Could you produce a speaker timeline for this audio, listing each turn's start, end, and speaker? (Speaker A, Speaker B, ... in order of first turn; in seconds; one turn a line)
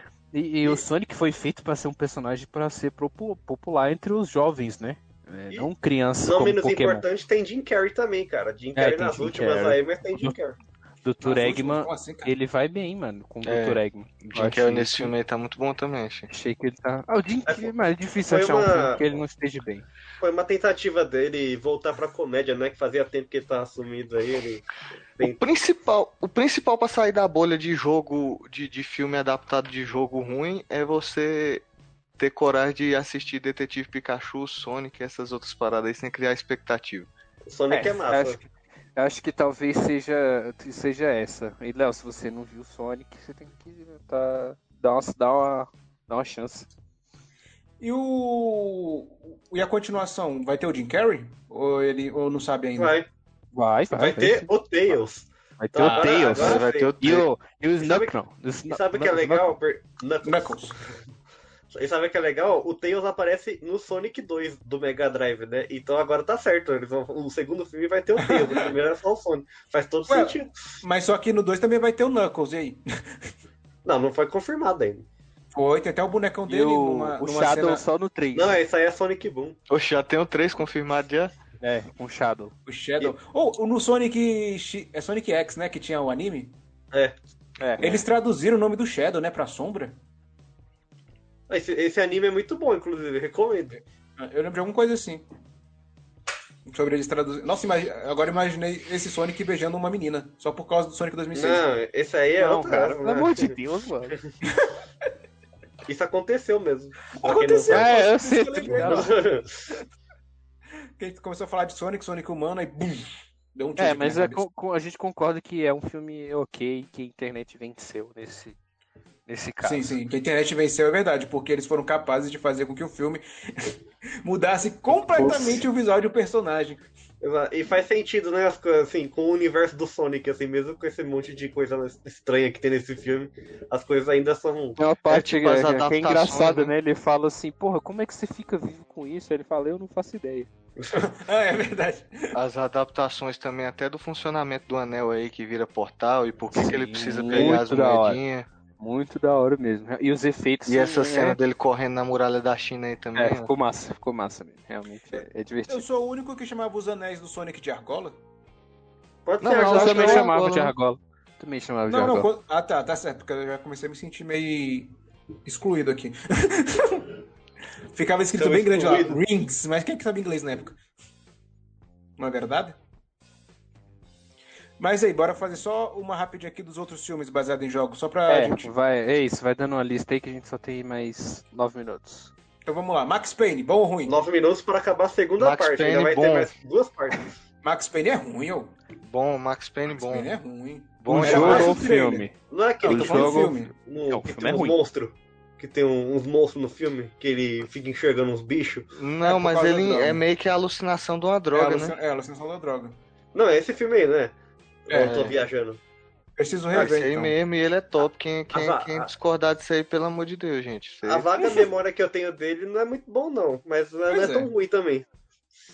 Speaker A: 0.3-7.0
Speaker B: 6.2-10.6
Speaker A: 8.7-10.3
Speaker A: 11.0-15.1
Speaker C: 11.2-12.3
Speaker D: 13.4-16.3
Speaker A: 16.3-19.9
Speaker B: 17.5-17.7
Speaker B: 18.3-19.0
Speaker B: 20.2-24.6
Speaker D: 25.2-31.6
Speaker D: 32.2-37.1
Speaker B: 37.5-38.4
Speaker A: 37.7-46.7
Speaker C: 47.8-52.9
Speaker B: 52.8-53.0
Speaker A: 53.5-54.5
Speaker B: 53.9-56.9
Speaker A: 55.6-59.5
Speaker C: 55.8-56.2
Speaker D: 56.3-57.3
Speaker B: 57.8-58.1
Speaker B: 58.7-61.0
Speaker C: 60.2-60.8
Speaker B: 61.7-70.5
Speaker C: 68.2-68.7
Speaker C: 70.1-72.8
Speaker B: 73.8-75.0
Speaker C: 75.5-77.8
Speaker A: 76.5-78.6
Speaker B: 78.3-79.5
Speaker D: 79.7-81.3
Speaker A: 81.6-82.5
Speaker C: 82.7-86.5
Speaker A: 87.6-88.0
Speaker C: 87.8-90.0
Speaker B: 91.5-93.8
Speaker C: 93.7-95.2
Speaker C: 96.7-101.7
Speaker B: 101.3-103.5
Speaker A: 102.4-104.2
Speaker B: 105.9-107.9
Speaker C: 107.2-109.3
Speaker A: 107.7-109.2
Speaker B: 108.7-109.6
Speaker C: 111.0-114.4
Speaker A: 113.8-118.5
Speaker A: 119.3-120.0
Speaker C: 119.6-126.8
Speaker A: 125.1-125.6
Speaker B: 127.2-134.8
Speaker A: 134.8-140.5
Speaker D: 135.1-136.7
Speaker B: 140.8-141.0
Speaker C: 140.9-142.3
Speaker D: 142.3-148.5
Speaker A: 146.5-148.2
Speaker A: 148.8-151.4
Speaker D: 150.7-153.5
Speaker A: 153.1-155.8
Speaker C: 155.7-158.2
Speaker B: 159.2-160.3
Speaker D: 159.4-160.7
Speaker A: 159.5-162.3
Speaker C: 161.9-164.9
Speaker C: 165.4-167.1
Speaker C: 167.9-170.8
Speaker B: 168.3-169.2
Speaker C: 172.2-172.8
Speaker C: 174.8-178.7
Speaker A: 178.3-182.3
Speaker C: 182.7-184.2
Speaker B: 184.1-187.3
Speaker D: 185.4-186.5
Speaker C: 187.6-188.8
Speaker D: 189.0-190.3
Speaker C: 189.9-192.2
Speaker D: 191.0-191.8
Speaker A: 191.1-194.8
Speaker B: 192.5-198.8
Speaker C: 192.8-193.7
Speaker D: 198.9-201.9
Speaker C: 199.2-200.2
Speaker C: 201.5-203.0
Speaker B: 203.3-204.3
Speaker B: 204.9-205.8
Speaker C: 204.9-205.3
Speaker D: 205.0-205.4
Speaker C: 206.4-207.3
Speaker D: 206.7-211.6
Speaker B: 208.5-209.1
Speaker B: 211.1-215.1
Speaker C: 214.1-214.5